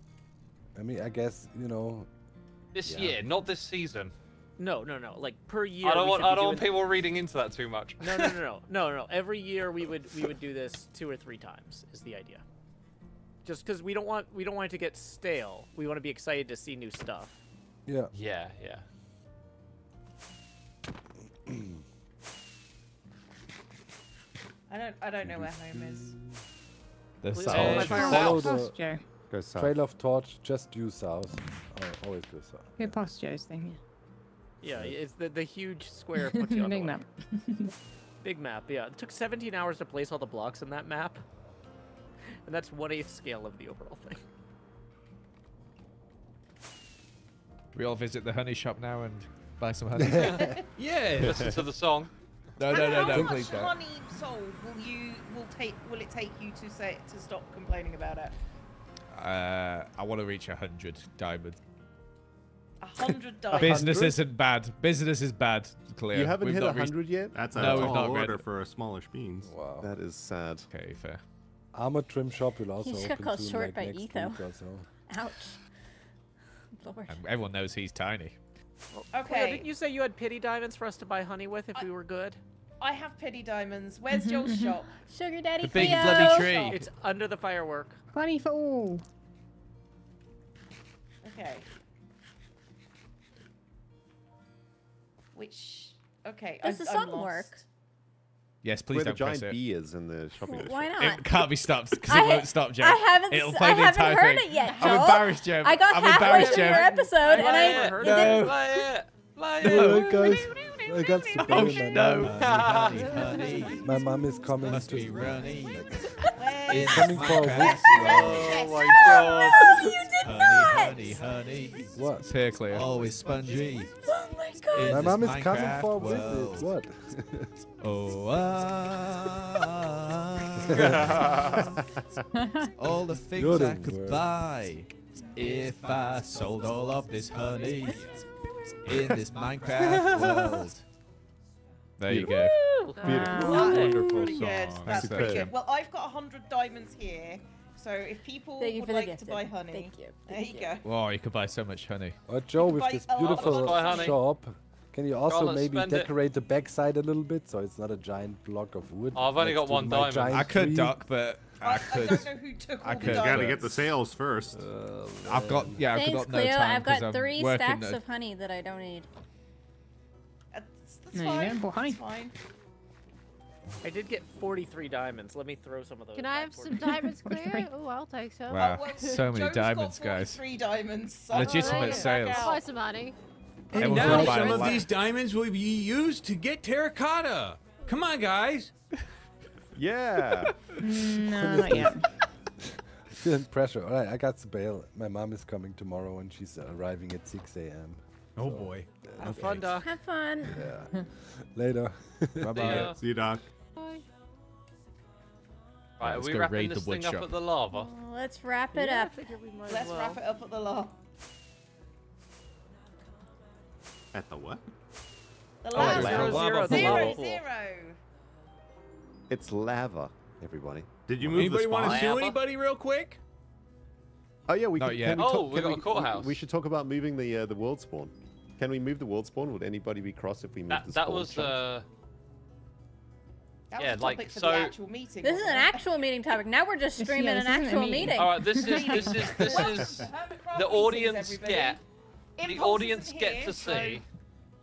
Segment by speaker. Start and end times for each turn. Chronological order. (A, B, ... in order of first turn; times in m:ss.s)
0:00.7-0:02.1 A
0:02.7-0:04.1 B
0:02.8-0:03.2 A
0:04.6-0:06.8 C
0:05.8-0:08.4 B
0:08.0-0:12.4 C
0:13.4-0:17.4 C
0:17.8-0:18.1 A
0:18.1-0:18.8 B
0:21.5-0:21.8 A
0:24.7-0:26.1 D
0:25.2-0:26.3 A
0:27.2-0:28.3 E
0:27.3-0:28.4 C
0:27.5-0:27.8 F
0:27.5-0:28.5 B
0:27.7-0:29.0 G
0:27.9-0:29.0 A
0:29.3-0:29.8 F
0:29.5-0:33.0 A
0:32.8-0:33.8 G
0:34.6-0:37.0 C
0:34.7-0:35.0 A
0:36.2-0:37.7 G
0:38.2-0:41.2 C
0:42.4-0:44.2 C
0:47.7-0:50.6 E
0:50.0-0:50.5 A
0:50.2-0:50.5 B
0:50.8-0:51.6 H
0:51.2-0:52.1 B
0:51.2-0:51.5 F
0:52.6-0:53.8 E
0:52.7-0:58.3 D
0:53.1-0:53.4 A
0:59.1-1:01.6 E
1:02.8-1:04.0 D
1:03.5-1:08.5 E
1:03.5-1:04.2 F
1:06.1-1:08.0 F
1:07.3-1:09.5 I
1:09.4-1:09.9 A
1:09.8-1:10.7 F
1:10.7-1:11.2 E
1:11.7-1:14.9 A
1:12.8-1:14.4 J
1:15.1-1:15.6 J
1:16.8-1:17.2 J
1:17.1-1:18.4 E
1:18.9-1:22.4 C
1:19.1-1:19.7 D
1:22.8-1:24.9 D
1:24.1-1:24.8 G
1:25.0-1:26.6 J
1:25.6-1:26.9 E
1:25.8-1:28.0 C
1:28.1-1:29.0 G
1:31.2-1:31.6 D
1:35.3-1:37.6 D
1:36.6-1:37.6 J
1:38.6-1:39.6 E
1:38.9-1:40.9 F
1:40.5-1:41.3 J
1:41.0-1:47.0 E
1:42.1-1:48.5 J
1:46.2-1:48.5 C
1:47.3-1:50.4 B
1:48.0-1:48.9 E
1:49.6-1:50.3 E
1:49.6-1:52.7 A
1:49.8-1:51.8 D
1:51.4-1:53.9 E
1:52.3-1:53.6 B
1:52.6-1:53.8 D
1:53.8-1:56.1 A
1:54.6-1:55.9 E
1:56.3-1:59.6 D
1:56.7-2:03.9 E
1:56.7-1:58.5 A
1:58.0-1:59.6 B
1:58.8-2:01.2 J
2:01.9-2:02.8 A
2:03.5-2:03.8 D
2:04.0-2:05.1 J
2:04.7-2:06.7 E
2:04.8-2:07.5 A
2:07.8-2:11.7 E
2:10.7-2:11.3 A
2:12.8-2:18.2 E
2:13.3-2:14.3 A
2:18.8-2:20.8 E
2:18.9-2:19.2 F
2:19.8-2:20.4 F
2:22.0-2:25.5 E
2:22.1-2:22.5 F
2:22.3-2:30.8 D
2:22.8-2:24.2 C
2:23.0-2:24.1 K
2:23.0-2:23.4 F
2:23.2-2:23.6 G
2:23.4-2:24.9 H
2:24.9-2:25.5 F
2:28.6-2:30.8 J
2:30.8-2:32.2 E
2:32.3-2:41.1 A
2:32.6-2:34.2 D
2:33.3-2:34.2 B
2:35.3-2:36.1 B
2:39.1-2:40.5 B
2:40.3-2:43.7 E
2:41.6-2:43.7 D
2:43.0-2:44.6 I
2:44.5-2:45.8 A
2:45.2-2:48.0 E
2:45.9-2:49.1 J
2:50.5-2:52.3 D
2:51.1-2:52.0 G
2:53.8-2:56.9 C
2:56.1-2:58.7 K
2:57.2-2:57.6 G
2:58.5-3:00.4 E
2:58.6-3:02.6 D
3:01.3-3:02.5 E
3:01.4-3:03.2 K
3:03.7-3:08.7 H
3:03.7-3:04.9 E
3:03.8-3:04.6 G
3:04.0-3:04.6 K
3:09.7-3:10.6 F
3:10.8-3:12.1 G
3:11.2-3:12.0 A
3:12.6-3:19.7 A
3:18.4-3:18.9 H
3:19.2-3:19.9 C
3:19.8-3:20.6 J
3:20.4-3:22.8 A
3:22.4-3:23.0 E
3:22.6-3:23.0 B
3:22.7-3:23.5 I
3:23.7-3:24.0 K
3:26.0-3:27.9 B
3:26.0-3:27.3 E
3:27.7-3:29.2 J
3:28.7-3:30.2 C
3:29.6-3:30.9 D
3:34.1-3:34.6 I
3:35.6-3:38.0 D
3:35.8-3:36.9 E
3:35.8-3:37.4 C
3:35.8-3:37.1 H
3:35.8-3:36.4 F
3:39.3-3:41.7 F
3:41.1-3:42.1 I
3:41.3-3:43.2 H
3:41.8-3:42.4 B
3:44.5-3:51.6 F
3:44.8-3:45.5 E
3:45.1-3:46.4 B
3:50.7-3:51.8 B
3:53.7-3:55.8 D
3:53.8-3:54.7 B
3:55.2-3:58.4 J
3:57.0-3:59.3 G
3:58.1-4:01.8 B
3:58.8-4:01.8 D
4:02.4-4:04.0 D
4:02.4-4:04.0 B